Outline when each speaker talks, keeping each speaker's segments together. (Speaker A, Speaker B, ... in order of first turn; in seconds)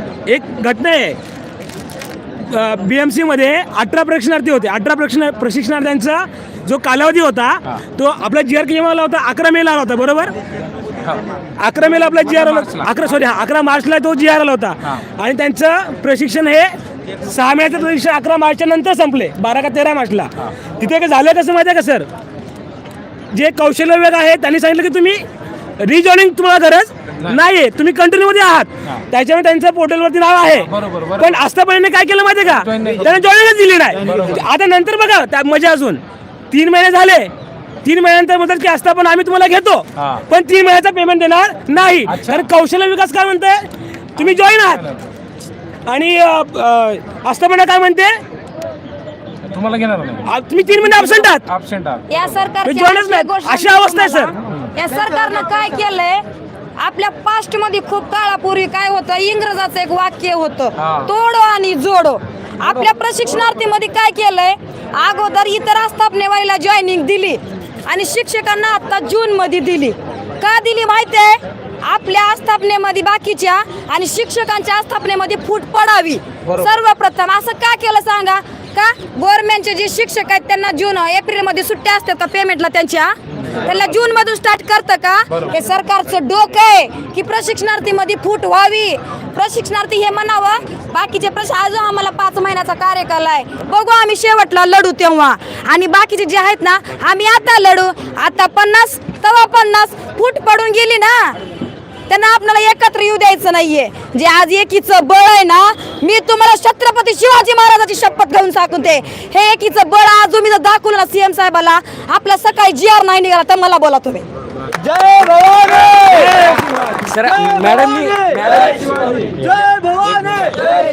Speaker A: 0.3-1.2, 2.5-10.3, 11.6-16.7, 17.2-22.1, 23.3-25.2, 25.8-37.3, 37.8-43.7, 44.2-44.8, 45.9-48.1, 50.2-51.4, 52.6-54.3
Speaker B: 12.1-13.1, 30.5-31.4, 32.4-33.2, 34.0-34.4, 40.0-40.3, 42.1-42.5, 44.2-45.0, 49.5-52.1, 60.8-61.1
Speaker C: 52.1-56.2, 56.8-101.4, 102.1-114.2, 115.9-116.3
Speaker D: 117.0-119.3